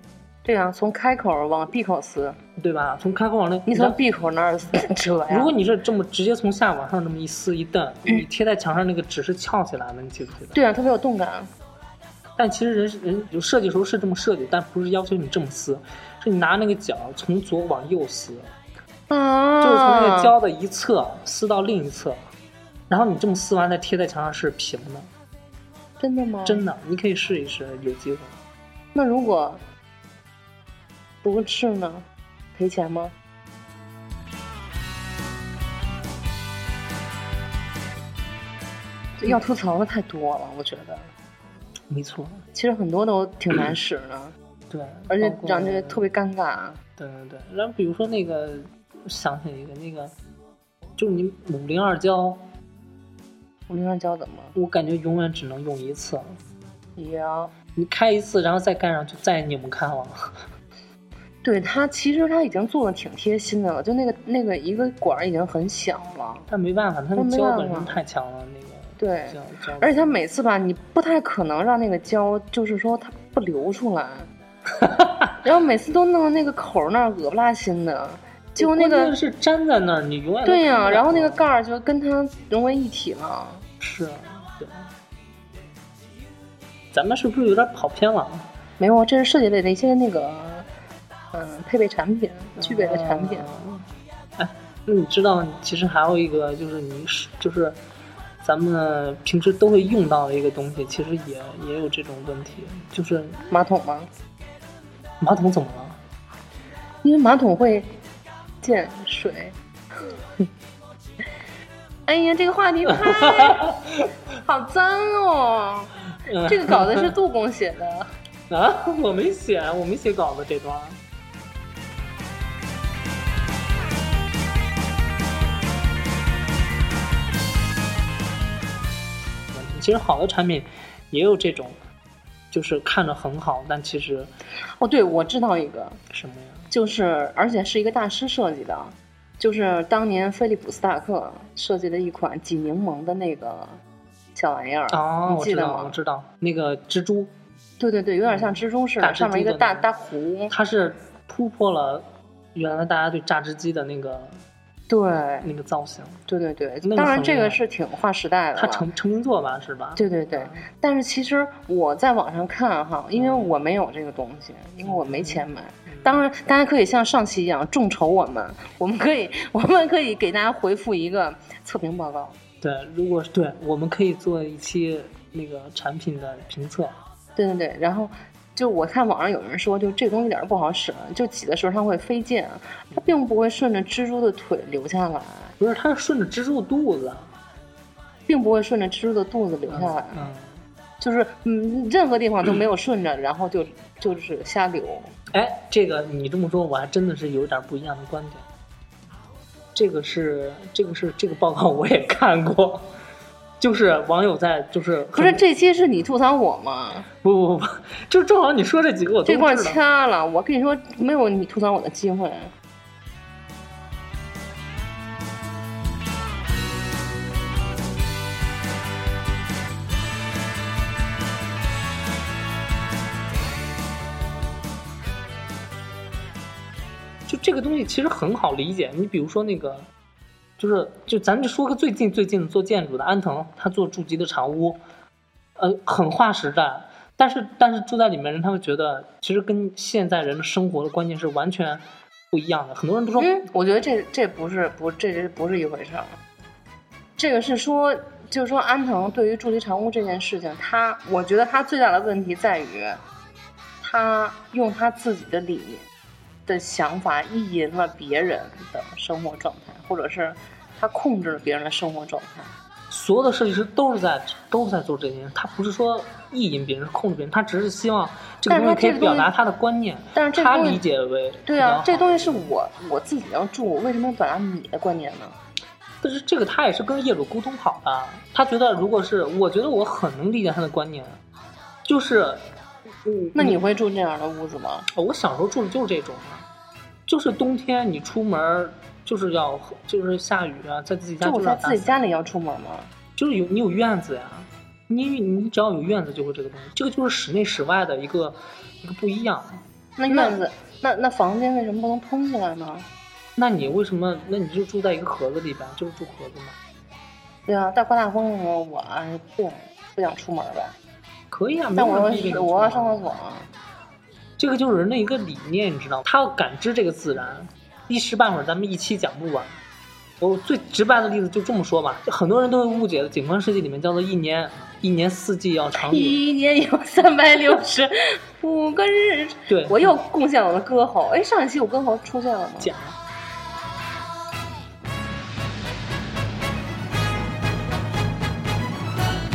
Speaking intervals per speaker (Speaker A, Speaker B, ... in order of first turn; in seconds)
Speaker A: 0.4-2.4, 3.7-5.5, 10.5-11.5, 19.1-20.3, 26.0-26.6, 28.9-29.6, 31.2-33.1, 39.2-41.1, 42.5-44.3, 45.1-46.8, 53.7-54.5, 57.0-57.5, 61.4-66.5, 67.1-68.0, 69.0-74.3, 75.4-79.1, 80.4-83.6, 88.8-90.7, 91.3-93.5, 103.5-104.1, 107.0-107.9, 108.6-109.5, 112.1-113.7, 114.4-118.1, 134.8-136.0, 136.7-143.8, 144.3-145.9, 147.8-150.5, 154.9-155.5, 156.3-158.9, 159.9-172.4, 177.3-185.5, 188.3-190.2, 191.0-195.1, 205.1-207.1, 209.2-212.5, 243.2-246.2, 247.2-253.0, 253.8-255.8, 256.5-262.5, 268.5-269.3, 270.1-270.8, 271.4-275.4, 283.3-284.9, 291.2-292.9, 300.0-302.9, 307.5-310.7, 311.7-313.5, 325.7-332.7
Speaker B: 2.6-4.0, 5.3-10.6, 12.4-18.5, 19.6-22.2, 22.9-25.1, 26.4-28.4, 41.9-42.4, 44.7-46.0, 47.0-50.1, 51.0-52.5, 54.5-56.4, 57.7-60.5, 66.5-70.1, 74.8-75.3, 78.6-81.4, 83.8-84.9, 86.9-88.5, 92.6-97.8, 98.4-103.4, 105.2-106.0, 112.9-114.1, 116.2-117.1, 118.5-121.0, 129.5-131.8, 132.5-134.3, 136.1-136.7, 144.9-147.3, 148.3-149.9, 150.5-154.4, 155.4-156.2, 156.8-157.6, 158.5-160.6, 163.2-163.5, 164.8-166.2, 172.6-177.0, 185.6-187.3, 189.7-190.6, 195.3-198.4, 199.7-202.9, 203.6-205.4, 207.2-209.8, 227.3-229.9, 230.6-234.8, 235.6-243.3, 262.9-272.5, 276.0-281.2, 281.8-282.5, 283.0-283.6, 284.9-286.5, 287.1-292.0, 293.2-300.4, 303.4-306.6, 311.3-313.1, 314.4-319.6, 320.2-326.2, 329.5-329.9, 332.6-333.0